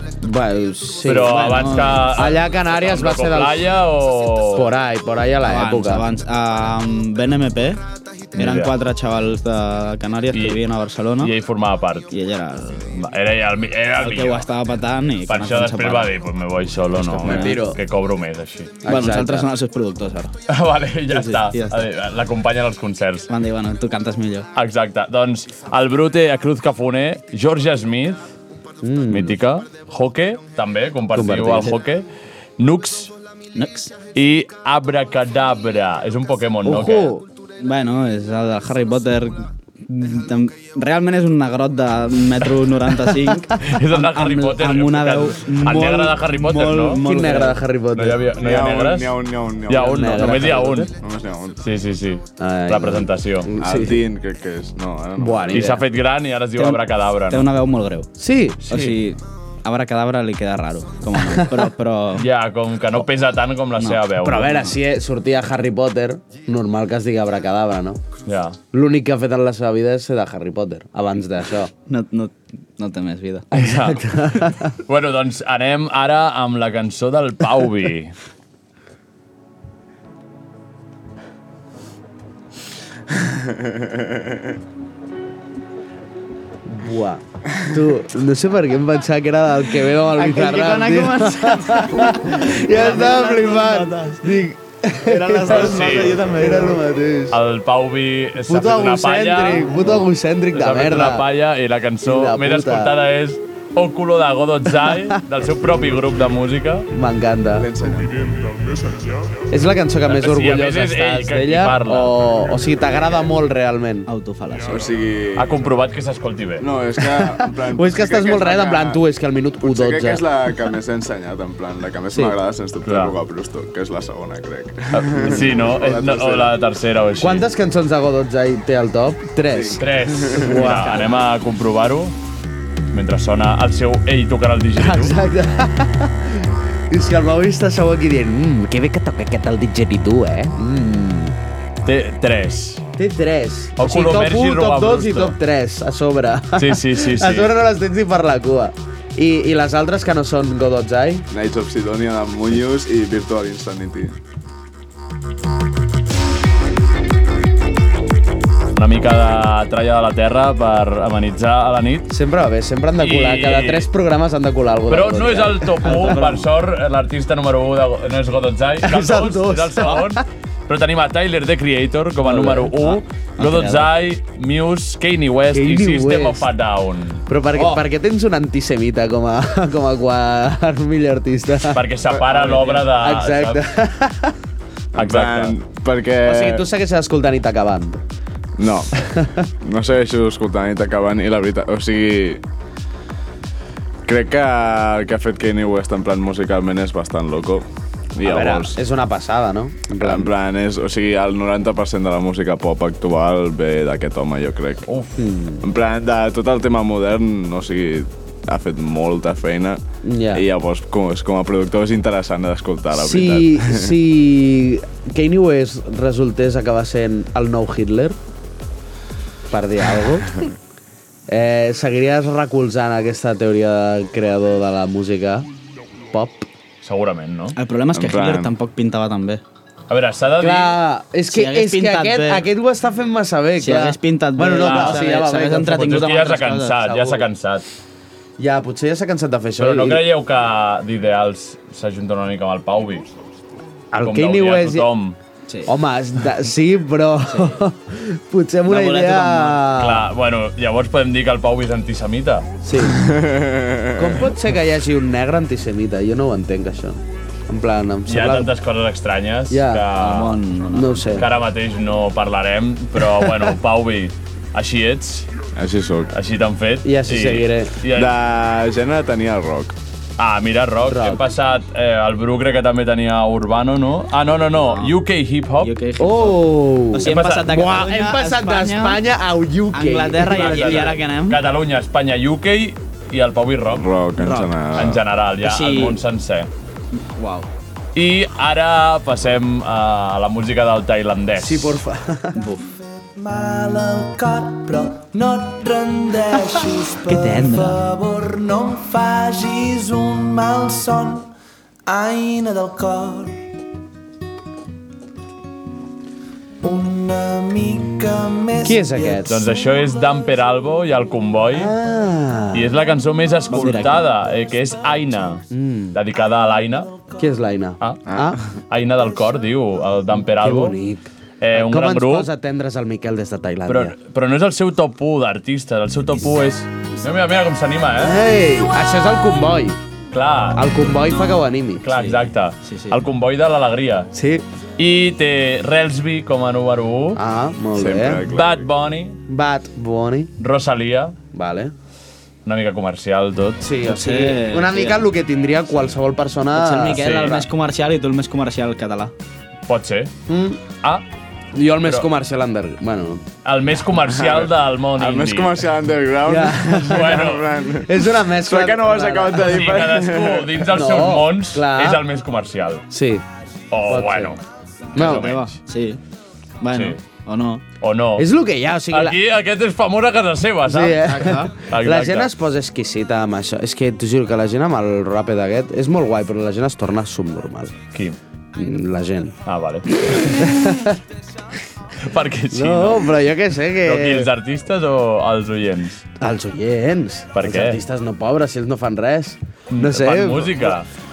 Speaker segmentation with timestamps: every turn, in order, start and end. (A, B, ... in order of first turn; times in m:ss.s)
0:00.2-0:03.7 A
0:01.0-0:04.7 B
0:01.2-0:02.2 C
0:04.5-0:06.1 A
0:05.5-0:07.8 C
0:08.3-0:11.3 C
0:08.4-0:08.7 B
0:10.3-0:10.6 B
0:11.2-0:12.1 B
0:12.1-0:13.0 C
0:12.9-0:14.4 B
0:14.0-0:16.1 C
0:15.3-0:18.8 B
0:17.0-0:17.6 C
0:17.2-0:17.8 A
0:18.8-0:19.5 A
0:18.8-0:20.3 C
0:20.5-0:23.3 B
0:21.1-0:21.8 C
0:23.3-0:24.5 C
0:24.5-0:28.3 B
0:28.8-0:29.4 A
0:29.1-0:32.0 B
0:31.1-0:31.8 A
0:32.6-0:33.1 B
0:33.5-0:33.9 C
0:34.1-0:37.1 B
0:36.6-0:47.6 C
0:36.7-0:37.1 A
0:43.6-0:47.0 B
0:47.0-0:48.3 A
0:47.9-0:50.9 B
0:48.4-0:50.3 D
0:49.7-0:50.9 A
0:51.0-0:51.6 D
0:51.6-0:53.5 B
0:52.4-0:54.0 A
0:53.6-0:55.7 D
0:55.2-0:55.8 A
0:55.5-0:57.5 B
0:56.6-0:58.1 C
0:58.2-0:58.6 A
0:58.7-1:02.2 C
0:58.7-0:59.0 B
1:01.2-1:01.7 A
1:02.2-1:04.6 B
1:04.2-1:08.0 A
1:08.2-1:08.6 B
1:08.7-1:11.7 A
1:11.9-1:13.4 C
1:13.5-1:14.7 A
1:13.5-1:14.0 B
1:14.9-1:18.2 B
1:23.6-1:23.9 D
1:26.6-1:37.4 A
1:30.1-1:34.3 C
1:35.0-1:36.8 C
1:35.4-1:36.2 B
1:37.3-1:46.9 B
1:38.4-1:41.3 A
1:42.0-1:42.9 A
1:44.9-1:45.2 A
1:46.9-1:47.7 A
1:47.6-1:48.9 D
1:49.5-1:54.1 A
1:50.1-1:52.2 B
1:54.0-1:54.9 C
1:54.7-1:55.6 D
1:55.4-1:56.6 B
1:56.6-1:59.0 D
1:57.0-2:00.5 A
1:59.6-2:06.5 D
2:02.1-2:02.4 A
2:02.8-2:03.2 B
2:04.9-2:07.5 B
2:07.2-2:11.2 A
2:09.5-2:10.6 D
2:09.8-2:12.1 B
2:12.9-2:15.2 B
2:14.8-2:21.3 A
2:21.8-2:22.8 B
2:23.0-2:31.2 A
2:23.8-2:25.4 B
2:26.6-2:27.5 B
2:31.3-2:34.2 D
2:38.8-2:42.1 B
2:42.1-2:46.2 A
2:43.0-2:43.9 B
2:44.9-2:57.2 B
2:45.8-2:46.4 C
2:48.8-2:50.2 A
2:52.2-2:52.7 A
2:52.7-2:53.9 C
2:55.5-2:56.5 A
2:57.3-3:01.8 A
2:57.6-2:57.8 C
3:01.7-3:03.6 B
3:02.3-3:02.8 C
3:02.9-3:04.4 A
3:04.9-3:05.6 B
3:04.9-3:06.6 D
3:06.2-3:08.0 A
3:08.6-3:08.9 D
3:09.0-3:09.4 A
3:09.6-3:12.4 D
3:14.0-3:18.8 D
3:18.2-3:20.3 A
3:20.0-3:24.8 D
3:24.9-3:25.2 B
3:25.2-3:25.6 A
3:25.6-3:29.8 D
3:30.0-3:30.4 A
3:30.3-3:33.9 D
3:32.9-3:38.2 A
3:39.5-3:40.3 A
3:41.3-3:45.5 A
3:46.1-3:46.5 A
3:46.8-3:47.6 B
3:47.6-3:49.4 C
3:47.9-3:48.5 D
3:49.9-3:50.8 B
3:50.4-3:56.0 A
3:51.3-3:52.4 C
3:53.6-3:56.8 C
3:54.6-3:55.0 B
3:55.7-3:57.6 B
3:56.8-3:57.2 A
3:58.4-4:00.1 A
3:59.6-4:03.1 B
4:03.9-4:04.9 A
4:04.0-4:05.2 B
4:05.5-4:05.7 C
4:05.7-4:10.1 A
4:07.3-4:07.6 C
4:08.7-4:12.5 B
4:12.6-4:13.0 A
4:12.9-4:14.1 D
4:14.0-4:18.5 A
4:18.1-4:20.4 B
4:19.5-4:19.9 A
4:20.0-4:21.2 C
4:20.7-4:21.3 A
4:21.1-4:25.3 B
4:23.2-4:23.5 A
4:25.6-4:26.1 D
4:26.1-4:28.1 B
4:26.8-4:27.8 A
4:27.9-4:29.7 D
4:30.2-4:35.7 B
4:30.8-4:31.2 A
4:34.6-4:34.9 C
4:35.6-4:39.0 C
4:36.0-4:41.0 A
4:37.0-4:37.6 B
4:39.7-4:41.4 C
4:40.3-4:43.8 B
4:43.7-4:45.0 D
4:44.2-4:44.5 C
4:44.7-4:46.5 B
4:45.4-4:46.0 C
4:47.0-4:47.5 C
4:47.9-4:51.8 B
4:51.4-4:52.4 A
4:52.3-4:52.7 C
4:53.1-5:01.3 E
4:57.0-4:57.8 C
5:01.9-5:03.3 E
5:06.6-5:09.9 E
5:08.6-5:09.4 A
5:09.2-5:11.7 B
5:11.5-5:12.8 A
5:12.5-5:16.9 B
5:13.5-5:14.0 C
5:15.5-5:16.0 A
5:17.2-5:18.4 A
5:18.1-5:18.4 D
5:18.7-5:20.8 B
5:20.1-5:23.9 A
5:21.4-5:22.3 B
5:23.7-5:28.2 B
5:28.0-5:29.8 A
5:30.1-5:30.6 B
5:30.5-5:31.8 A
5:31.8-5:34.1 B
5:31.9-5:33.0 C
5:34.1-5:34.4 A
5:34.8-5:37.2 B
5:37.1-5:38.2 A
5:37.8-5:38.6 D
5:38.3-5:39.2 B
5:39.3-5:40.3 A
5:40.4-5:41.2 B
5:41.3-5:41.7 A
5:42.4-5:43.6 B
5:43.6-5:47.2 A
5:43.8-5:45.0 C
5:46.5-5:49.1 C
5:47.0-5:47.4 B
5:49.7-5:50.1 B
5:50.3-5:50.6 A
5:51.5-5:53.2 A
5:53.4-5:55.6 B
5:54.0-5:57.9 D
5:56.2-5:57.2 A
5:56.8-5:57.5 B
5:57.8-5:59.6 A
5:58.4-6:00.6 D
5:59.4-6:02.8 B
6:00.6-6:02.0 A
6:02.9-6:03.2 A
6:03.7-6:04.4 B
6:03.8-6:04.4 A
6:04.9-6:05.5 B
6:04.9-6:05.3 A
6:05.0-6:06.0 C
6:06.6-6:07.6 C
6:06.7-6:07.0 B
6:07.8-6:08.3 B
6:08.2-6:09.2 A
6:08.9-6:12.3 B
6:10.6-6:17.8 A
6:11.1-6:11.5 C
6:17.9-6:18.2 B
6:18.6-6:19.4 A
6:19.4-6:20.4 B
6:20.0-6:21.0 A
6:22.0-6:23.2 B
6:22.5-6:24.3 A
6:23.8-6:26.0 B
6:26.2-6:30.8 A
6:27.3-6:27.8 B
6:29.7-6:30.9 B